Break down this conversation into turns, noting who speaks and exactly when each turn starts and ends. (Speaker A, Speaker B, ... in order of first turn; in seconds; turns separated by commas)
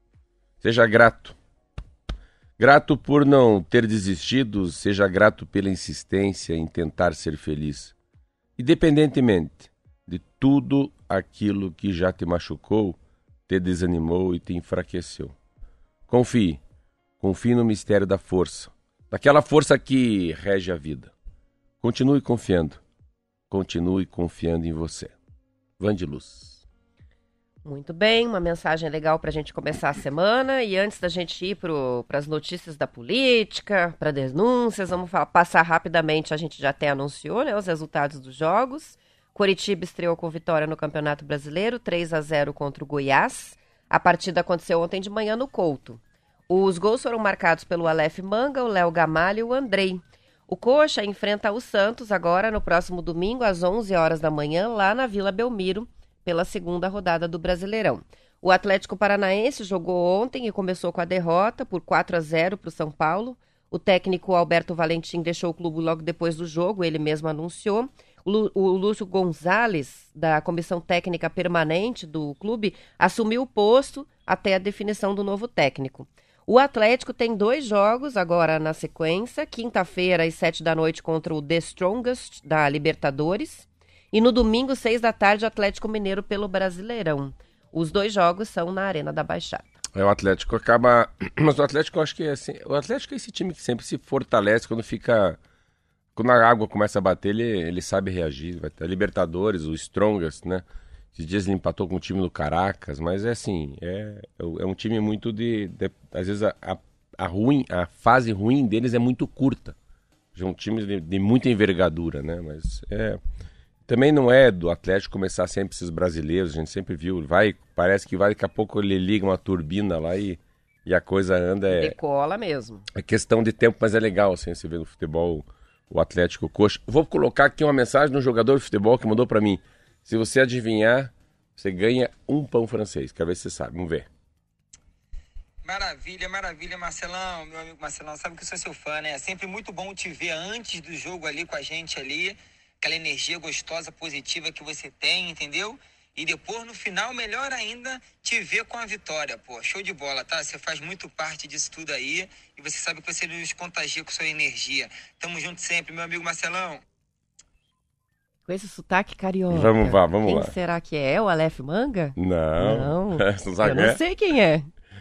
Speaker A: 0.6-1.4, Speaker A: 2.6-7.9, Speaker A: 8.6-15.3, Speaker A: 16.1-16.6, Speaker A: 17.2-21.1, Speaker A: 21.8-22.8, Speaker A: 23.5-25.1, Speaker A: 25.8-26.6, Speaker B: 27.6-89.7, Speaker A: 89.9-95.4, Speaker A: 96.2-109.8, Speaker A: 110.3-113.2, Speaker A: 113.9-122.0, Speaker B: 121.7-122.8, Speaker A: 122.9-134.1, Speaker C: 135.6-156.8, Speaker B: 158.5-164.7, Speaker A: 159.5-160.5, Speaker A: 162.2-164.0